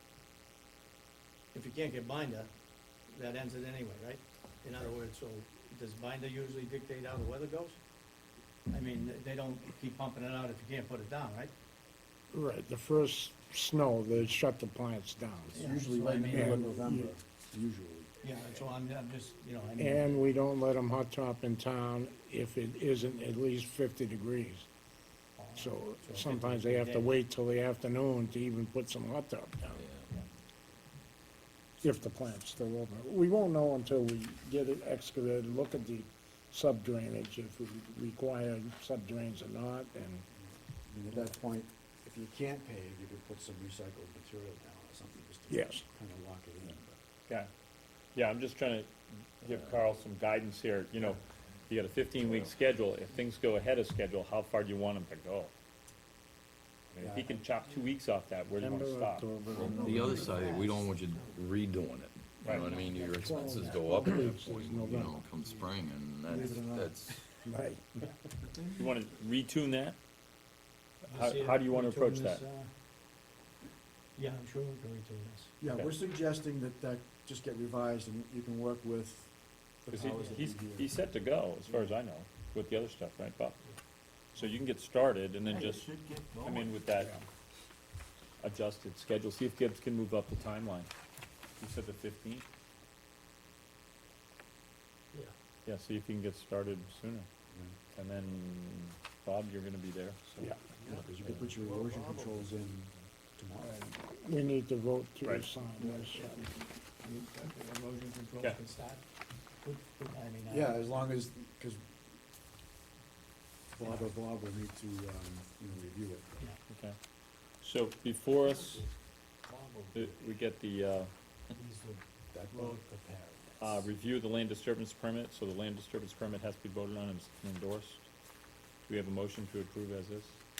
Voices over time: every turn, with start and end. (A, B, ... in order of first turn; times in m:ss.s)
0:01.5-0:02.5 A
0:03.1-0:07.8 A
0:08.7-0:11.5 A
0:12.3-0:17.1 B
0:15.5-0:16.8 A
0:15.6-0:18.2 C
0:18.2-0:20.3 A
0:19.8-0:24.7 B
0:25.4-0:27.2 A
0:25.6-0:29.8 B
0:29.7-0:30.1 D
0:31.8-0:40.3 B
0:40.3-0:47.0 C
0:45.5-0:45.8 B
0:48.1-0:55.5 E
0:49.4-0:49.8 D
0:56.9-0:59.3 E
0:57.0-0:57.4 C
0:58.6-1:00.5 B
0:59.5-1:07.2 D
0:59.7-1:01.4 A
1:02.4-1:02.8 E
1:02.4-1:03.8 A
1:03.1-1:05.2 B
1:06.2-1:07.6 C
1:07.5-1:07.8 B
1:08.5-1:08.8 A
1:08.7-1:10.0 E
1:11.0-1:12.7 A
1:11.1-1:12.4 E
1:14.2-1:15.5 A
1:15.6-1:21.0 C
1:15.7-1:15.9 E
1:19.9-1:23.6 E
1:20.1-1:20.4 A
1:21.7-1:21.9 C
1:24.4-1:25.9 E
1:25.5-1:26.7 A
1:26.4-1:27.2 E
1:28.4-1:30.9 E
1:31.6-1:32.4 E
1:35.6-1:37.3 E
1:37.5-1:37.8 C
1:37.9-1:40.5 E
1:40.8-1:42.4 A
1:40.9-1:43.8 C
1:43.9-1:46.4 B
1:45.8-1:49.0 A
1:49.6-1:50.8 A
1:50.5-1:51.8 C
1:53.7-1:56.3 C
1:56.7-1:56.9 E
1:57.6-1:58.8 E
1:58.4-1:58.9 A
1:59.5-2:00.2 A
1:59.9-2:01.1 E
2:01.5-2:03.8 A
2:02.3-2:02.8 C
2:03.6-2:08.1 E
2:08.8-2:10.4 E